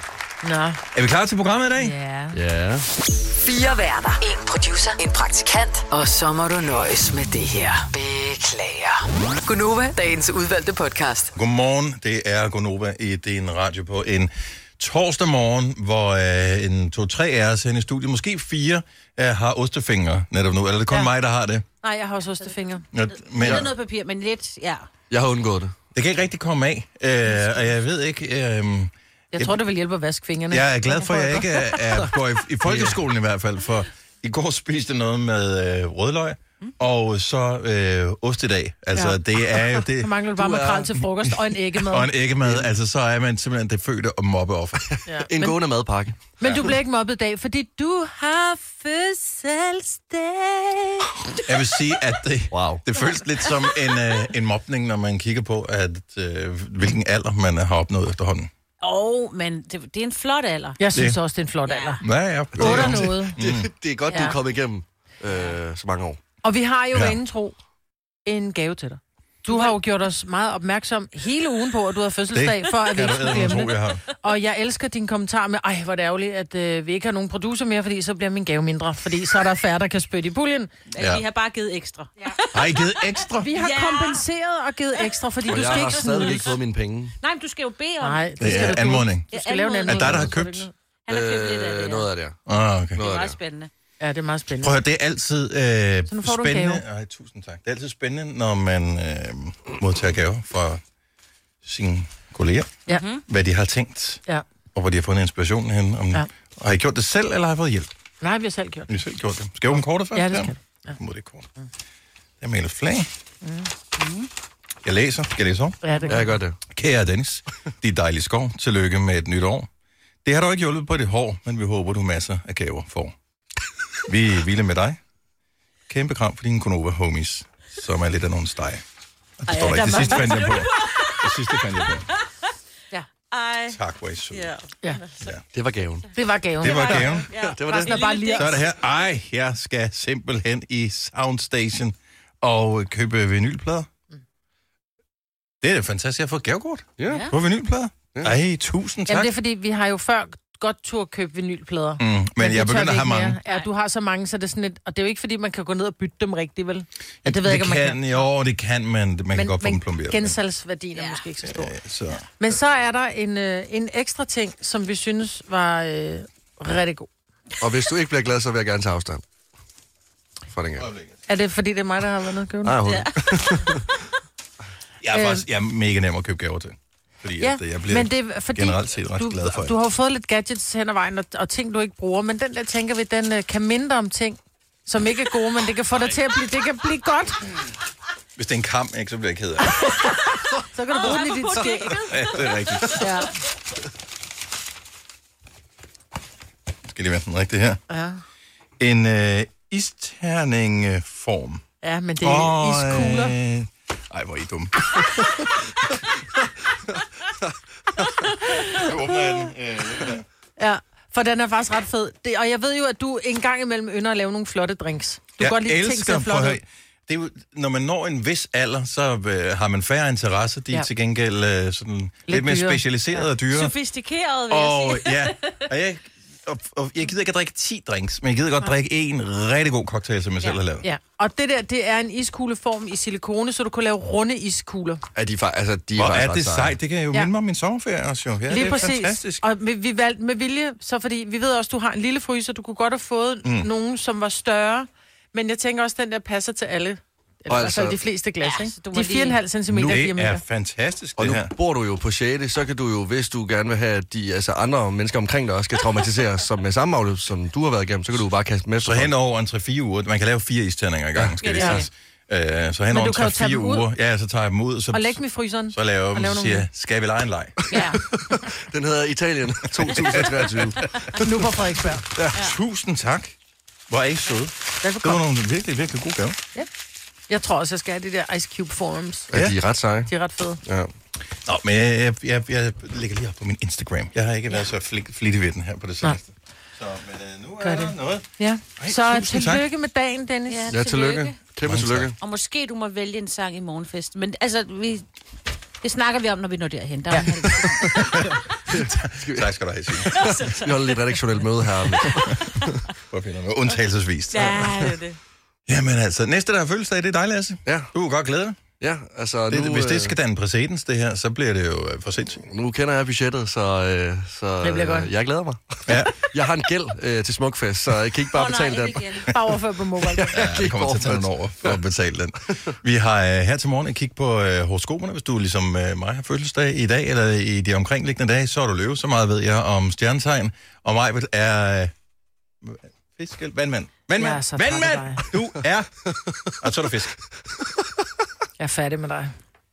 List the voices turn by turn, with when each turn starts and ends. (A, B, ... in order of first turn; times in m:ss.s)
0:00.4-0:00.8 A
0:00.9-0:02.0 B
0:01.8-0:02.4 A
0:02.3-0:02.9 C
0:03.4-0:11.3 D
0:11.4-0:21.6 B
0:21.8-0:22.8 A
0:22.9-0:23.7 B
0:23.4-0:24.9 E
0:25.1-0:25.7 C
0:25.9-0:29.6 B
0:29.3-0:31.8 A
0:30.5-0:40.2 B
0:32.7-0:33.0 C
0:38.9-0:42.1 A
0:40.4-0:41.0 C
0:41.7-0:44.9 B
0:44.9-0:46.2 C
0:45.1-0:45.6 A
0:46.4-0:51.1 A
0:46.4-0:46.7 B
0:51.4-0:58.5 B
0:52.5-0:52.8 C
0:58.8-1:00.8 E
1:00.8-1:02.0 A
1:00.9-1:01.2 B
1:01.7-1:02.0 E
1:02.0-1:03.7 B
1:02.6-1:06.2 C
1:02.6-1:03.4 A
1:06.4-1:07.6 A
1:06.9-1:07.2 B
1:08.3-1:20.7 A
1:09.5-1:09.8 E
1:12.3-1:14.0 B
1:20.9-1:22.9 E
1:21.0-1:21.2 B
1:22.5-1:23.5 B
1:23.4-1:26.5 A
1:23.5-1:24.3 E
1:25.0-1:26.6 E
1:25.5-1:27.2 C
1:27.2-1:30.2 E
1:28.0-1:30.7 A
1:28.4-1:29.3 B
1:29.9-1:30.7 B
1:31.1-1:32.1 E
1:31.1-1:32.4 C
1:32.5-1:33.0 B
1:33.0-1:33.4 C
1:33.0-1:33.7 E
1:34.0-1:34.8 A
1:34.6-1:40.8 B
1:36.1-1:36.8 A
1:41.6-1:48.0 B
1:42.9-1:43.2 E
1:48.2-1:48.9 A
1:48.9-1:51.5 B
1:50.1-1:50.9 A
1:52.4-1:53.1 B
1:53.4-1:53.7 A
1:54.0-1:54.3 E
1:54.8-1:55.8 B
1:55.8-1:56.4 A
1:56.1-1:56.6 C
1:56.7-1:59.7 B
2:00.2-2:03.1 B
2:04.1-2:05.0 B
2:05.9-2:08.8 B
2:09.4-2:12.1 B
2:09.5-2:11.5 E
2:09.5-2:10.4 A
2:13.3-2:13.8 E
2:13.7-2:14.5 B
2:14.3-2:15.3 E
2:15.5-2:16.1 C
2:16.2-2:17.0 A
2:16.6-2:17.3 B
2:16.7-2:18.0 C
2:16.7-2:18.6 E
2:17.7-2:18.5 A
2:18.3-2:23.9 B
2:25.6-2:29.3 B
2:27.0-2:27.3 C
2:27.1-2:27.3 E
2:29.1-2:38.2 A
2:32.0-2:33.4 B
2:37.2-2:40.4 B
2:39.3-2:41.8 A
2:41.0-2:41.2 E
2:41.4-2:42.3 B
2:42.4-2:47.1 A
2:47.6-2:49.2 C
2:50.5-2:50.9 C
2:50.8-2:51.1 B
2:51.3-2:52.8 A
2:52.6-2:53.9 C
2:52.8-2:53.4 E
2:55.0-2:59.8 B
2:55.1-2:55.4 A
2:57.4-3:07.6 A
3:08.4-3:09.9 B
3:09.7-3:12.0 A
3:10.9-3:13.1 E
3:12.0-3:13.2 B
3:13.0-3:13.3 A
3:16.9-3:17.8 B
3:17.9-3:18.2 A
3:18.8-3:21.6 B
3:21.8-3:23.4 A
3:22.2-3:25.1 B
3:28.7-3:30.2 B
3:30.6-3:36.6 A
3:35.4-3:43.8 B
3:42.3-3:43.2 A
3:43.5-3:45.6 E
3:44.5-3:50.9 B
3:50.8-3:55.0 A
3:55.2-3:56.8 C
3:56.0-3:59.4 B
3:58.5-4:10.4 A
4:03.4-4:03.7 B
4:07.5-4:08.0 C
4:08.4-4:09.4 E
4:09.7-4:11.5 B
4:11.2-4:19.1 C
4:18.8-4:27.7 B
4:21.2-4:21.8 C
4:21.4-4:21.9 E
4:22.9-4:23.9 A
4:24.9-4:26.7 A
4:27.7-4:28.0 E
4:27.7-4:31.3 C
4:27.7-4:28.0 A
4:29.8-4:30.7 B
4:31.2-4:32.1 A
4:32.3-4:33.4 B
4:33.9-4:36.4 B
4:34.8-4:35.2 A
4:37.3-4:39.3 A
4:39.3-4:40.1 C
4:39.3-4:39.6 B
4:40.1-4:40.6 A
4:40.6-4:40.9 C
4:41.4-4:49.6 B
4:47.6-4:50.7 A
4:50.5-4:51.4 E
4:50.7-4:52.2 C
4:51.6-4:52.1 B
4:52.2-4:55.0 E
4:55.8-4:58.2 E
4:57.9-5:00.3 B
4:58.7-4:59.5 C
5:00.0-5:02.3 C
5:00.1-5:01.1 E
5:02.1-5:02.7 E
5:03.1-5:04.7 B
5:04.3-5:05.2 E
5:04.6-5:04.9 C
5:05.7-5:08.6 B
5:07.7-5:07.9 C
5:08.8-5:10.2 C
5:09.5-5:12.5 B
5:12.5-5:19.3 C
5:14.6-5:15.1 A
5:15.9-5:16.2 B
5:18.3-5:19.3 E
5:19.2-5:20.4 A
5:20.1-5:21.8 C
5:20.3-5:31.9 B
5:32.6-5:36.0 B
5:34.2-5:35.2 A
5:36.5-5:37.2 B
5:38.6-5:39.3 A